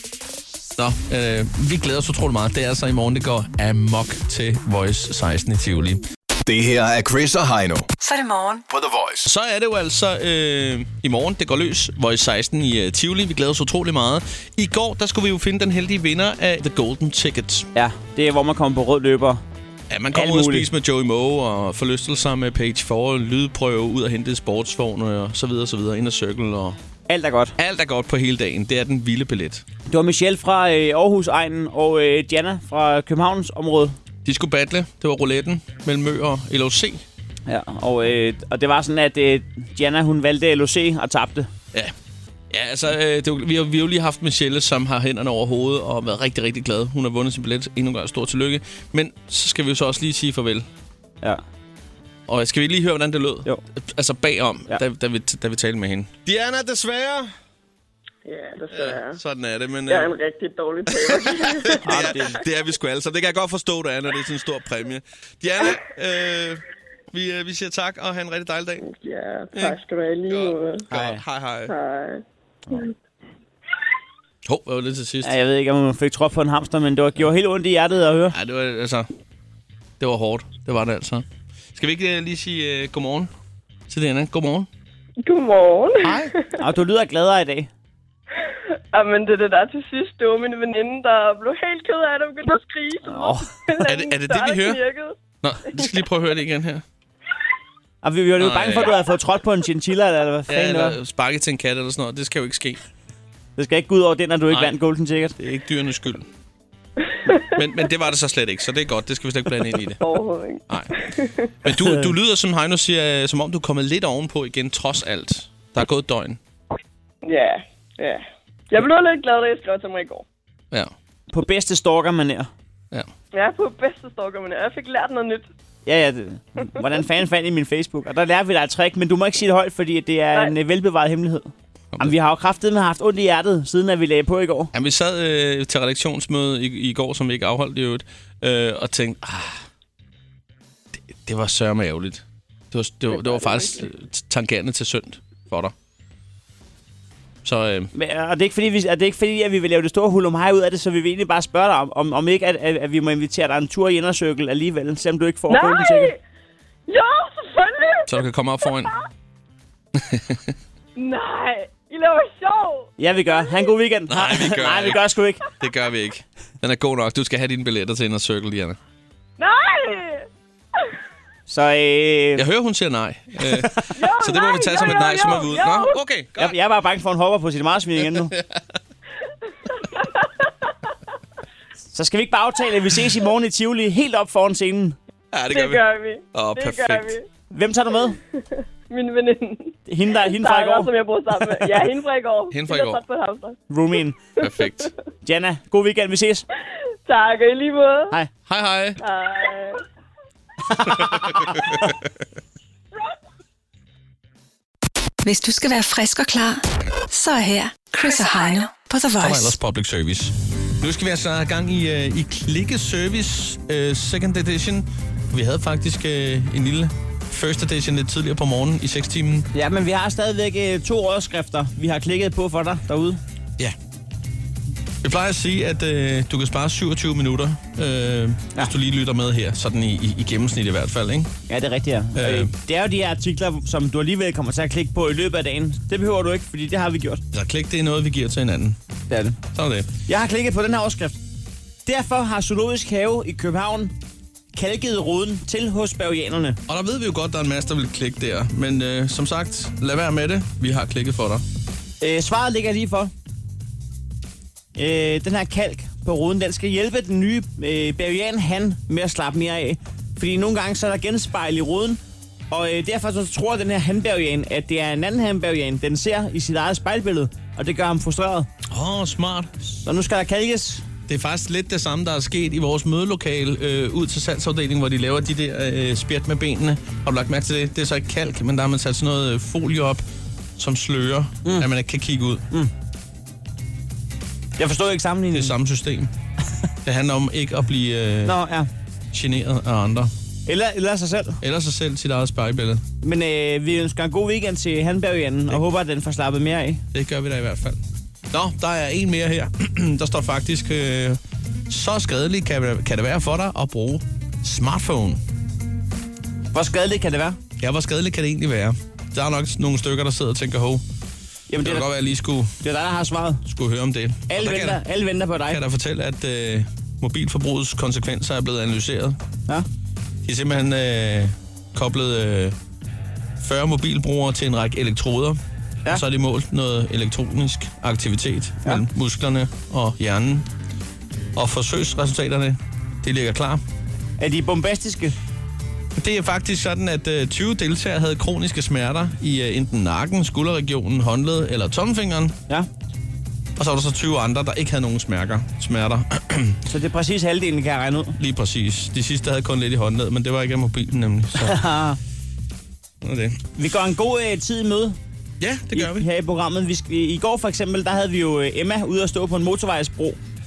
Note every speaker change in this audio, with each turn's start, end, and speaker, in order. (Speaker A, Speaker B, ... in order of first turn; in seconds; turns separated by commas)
Speaker A: 0.8-6.0, Speaker B: 6.5-7.9, Speaker C: 8.0-8.7, Speaker B: 8.7-9.3, Speaker A: 9.2-17.7, Speaker D: 17.8-19.4, Speaker A: 19.9-26.8, Speaker D: 20.1-20.7, Speaker D: 27.1-27.6, Speaker A: 27.6-29.6, Speaker D: 29.9-34.0, Speaker A: 34.2-37.0, Speaker D: 37.5-41.5, Speaker A: 42.5-50.7, Speaker A: 52.3-57.3, Speaker E: 58.3-59.2, Speaker A: 58.7-60.1, Speaker E: 59.9-61.8, Speaker A: 60.9-68.8, Speaker D: 61.8-62.4, Speaker E: 68.8-70.9, Speaker A: 69.5-71.7, Speaker D: 70.9-71.2, Speaker E: 71.7-72.2, Speaker A: 74.5-75.4, Speaker D: 75.2-78.4, Speaker A: 78.3-79.1, Speaker A: 80.0-83.3, Speaker A: 83.9-84.7, Speaker E: 85.2-86.3, Speaker D: 86.1-87.7, Speaker E: 88.9-95.2, Speaker D: 93.1-93.5, Speaker A: 93.8-94.8, Speaker A: 95.4-96.8, Speaker D: 98.0-101.0, Speaker A: 98.4-99.0, Speaker A: 100.5-102.8, Speaker D: 103.6-105.4, Speaker A: 104.5-104.8, Speaker A: 105.4-106.3, Speaker A: 107.5-110.0, Speaker E: 110.0-111.5, Speaker A: 110.7-111.0, Speaker A: 111.6-116.4, Speaker E: 117.2-120.2, Speaker D: 121.3-122.5, Speaker E: 123.3-125.5, Speaker D: 125.9-134.7, Speaker A: 134.7-139.6, Speaker A: 140.9-145.7, Speaker A: 147.4-147.9, Speaker D: 147.9-156.1, Speaker E: 155.5-156.2, Speaker E: 156.9-158.1, Speaker A: 158.1-158.9, Speaker A: 159.9-160.5, Speaker E: 161.0-162.9, Speaker D: 163.0-165.4, Speaker A: 164.1-165.1, Speaker A: 165.6-168.8, Speaker E: 169.4-170.3, Speaker D: 171.5-172.4, Speaker A: 172.4-176.6, Speaker E: 174.0-176.0, Speaker D: 176.4-178.3, Speaker A: 178.1-178.6, Speaker E: 180.0-180.3, Speaker D: 181.9-185.0, Speaker A: 185.3-187.2, Speaker E: 185.5-187.2, Speaker D: 187.5-188.2, Speaker E: 188.9-193.6, Speaker D: 189.9-190.9, Speaker A: 192.5-193.0, Speaker D: 193.7-194.2, Speaker A: 194.4-194.9, Speaker D: 195.2-196.4, Speaker E: 197.1-198.1, Speaker A: 198.5-199.0, Speaker E: 199.0-199.8, Speaker D: 200.7-201.5, Speaker A: 200.9-201.9, Speaker C: 205.2-209.6, Speaker A: 209.2-219.5, Speaker D: 219.5-223.2, Speaker A: 225.0-231.3, Speaker D: 231.5-237.2, Speaker A: 232.2-232.5, Speaker A: 237.3-238.8, Speaker D: 239.1-239.4, Speaker A: 239.5-239.9, Speaker D: 240.1-241.2, Speaker D: 241.9-243.9, Speaker D: 244.6-246.6, Speaker A: 246.7-251.4, Speaker D: 252.0-253.1, Speaker D: 254.8-262.0, Speaker D: 262.5-268.5, Speaker A: 268.7-269.5, Speaker D: 269.9-270.9, Speaker A: 271.1-280.0, Speaker A: 280.6-282.4, Speaker D: 284.6-285.6, Speaker A: 285.3-286.1, Speaker A: 286.8-288.4, Speaker D: 288.2-288.7, Speaker A: 289.1-290.1, Speaker D: 290.5-291.4, Speaker A: 291.4-292.8, Speaker D: 293.0-296.8, Speaker A: 296.9-305.2, Speaker D: 306.5-307.4, Speaker A: 307.6-310.8, Speaker D: 311.5-311.9, Speaker A: 311.6-312.6, Speaker D: 312.6-313.4, Speaker A: 313.5-314.8, Speaker D: 314.3-315.6, Speaker A: 315.4-319.2, Speaker A: 320.2-322.6, Speaker A: 323.4-330.5, Speaker A: 331.4-333.6, Speaker D: 334.2-335.2, Speaker A: 336.0-342.4, Speaker A: 343.6-346.6, Speaker D: 346.7-348.2, Speaker A: 348.2-351.6, Speaker D: 351.4-352.0, Speaker A: 353.0-353.4, Speaker D: 353.6-355.0, Speaker A: 355.4-356.1, Speaker D: 355.7-360.2